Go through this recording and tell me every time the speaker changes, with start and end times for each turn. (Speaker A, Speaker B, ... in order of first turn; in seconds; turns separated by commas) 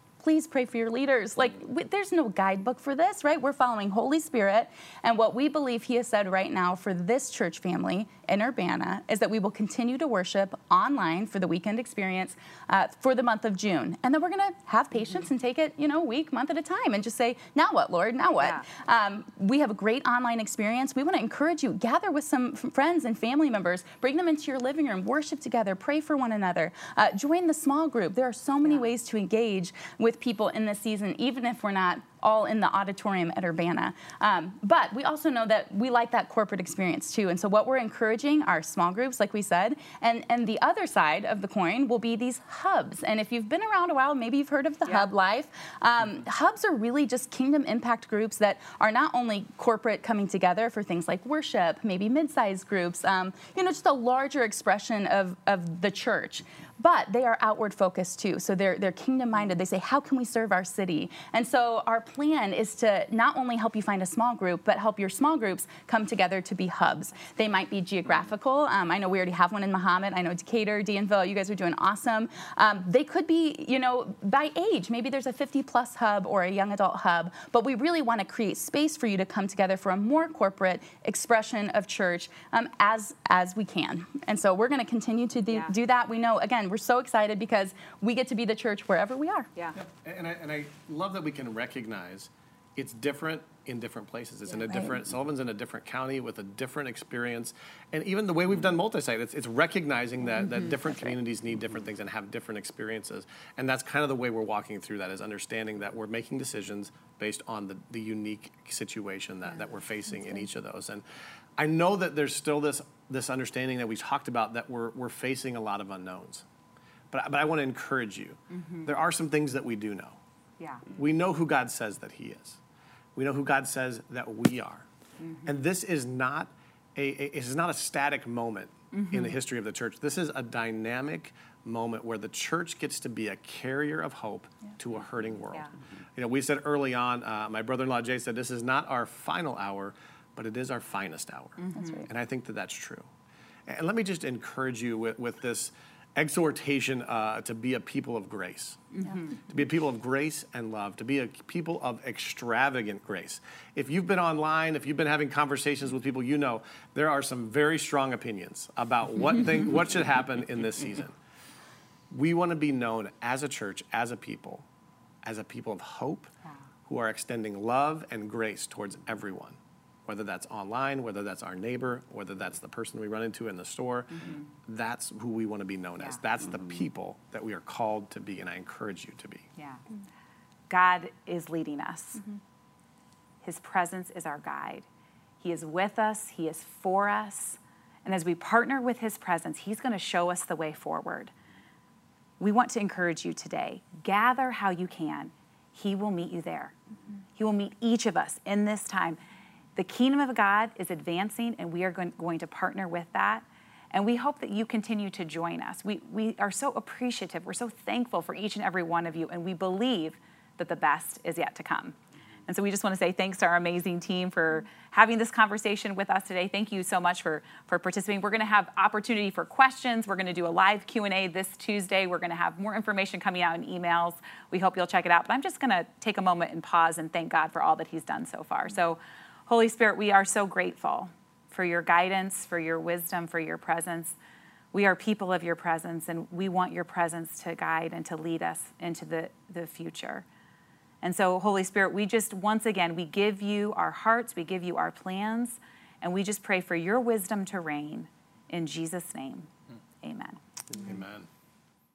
Speaker A: 0.2-89.5, Speaker B: 18.4-18.6, Speaker C: 89.7-111.0, Speaker C: 111.6-116.4, Speaker C: 117.1-120.2, Speaker B: 118.5-118.9, Speaker B: 120.6-120.8, Speaker C: 120.9-122.6, Speaker C: 123.2-124.8, Speaker B: 125.2-125.5, Speaker C: 125.4-143.1, Speaker B: 128.9-129.3, Speaker B: 141.6-142.0, Speaker A: 141.8-142.0, Speaker C: 143.7-148.9, Speaker B: 148.9-149.4, Speaker C: 149.4-161.2, Speaker C: 162.1-164.7, Speaker C: 165.2-166.3, Speaker C: 166.8-179.5, Speaker B: 174.1-174.5, Speaker B: 179.6-179.8, Speaker B: 180.7-182.2, Speaker B: 183.4-184.8, Speaker B: 185.4-191.3, Speaker B: 192.4-196.7, Speaker B: 197.4-199.2, Speaker B: 199.8-234.2, Speaker B: 234.7-240.2, Speaker B: 241.0-249.5, Speaker B: 250.0-250.4, Speaker C: 250.7-251.3